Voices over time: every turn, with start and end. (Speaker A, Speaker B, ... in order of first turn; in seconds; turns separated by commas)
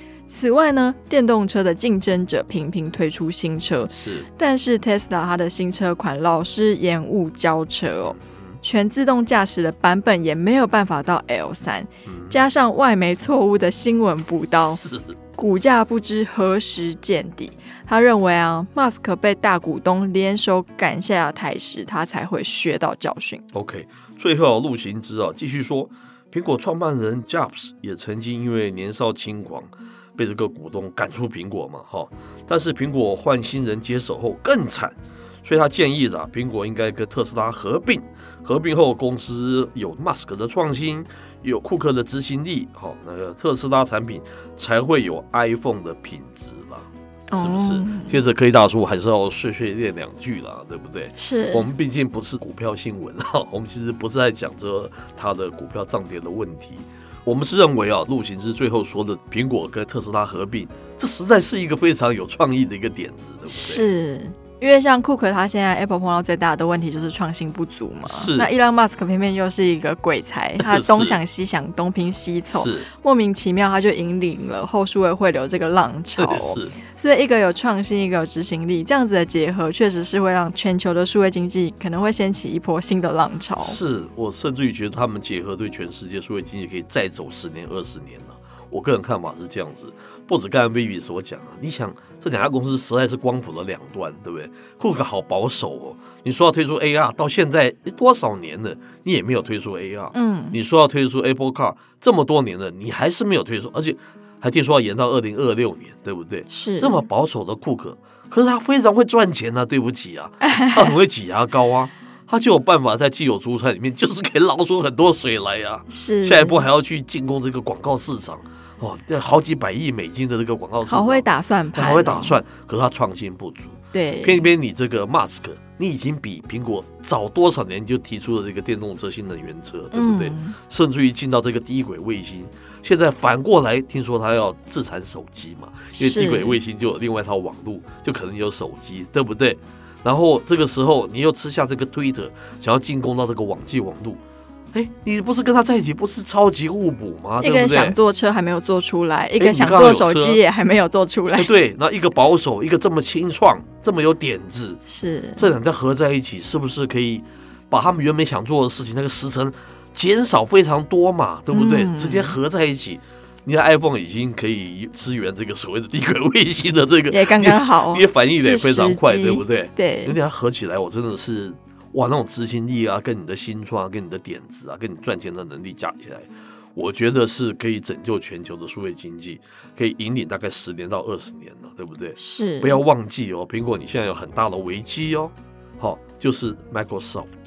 Speaker A: 0.3-14.8, Speaker B: 3.9-4.3, Speaker B: 12.1-12.4, Speaker B: 14.5-15.2, Speaker A: 15.3-23.4, Speaker B: 23.5-63.9, Speaker A: 47.3-48.2, Speaker A: 51.2-51.7, Speaker A: 63.5-83.8, Speaker B: 68.1-68.5, Speaker B: 70.6-71.2, Speaker B: 72.5-72.9, Speaker B: 76.2-76.8, Speaker B: 83.6-144.2, Speaker A: 100.1-100.6, Speaker A: 106.5-107.1, Speaker A: 110.5-110.9, Speaker A: 115.9-116.6, Speaker A: 120.9-122.4, Speaker A: 123.9-124.5, Speaker A: 129.9-130.6, Speaker A: 136.0-136.6, Speaker B: 144.7-148.0, Speaker A: 147.4-151.5, Speaker B: 149.4-150.4, Speaker B: 151.3-154.8, Speaker A: 154.9-155.5, Speaker B: 155.4-187.3, Speaker A: 161.5-162.4, Speaker A: 167.1-170.2, Speaker A: 182.2-182.8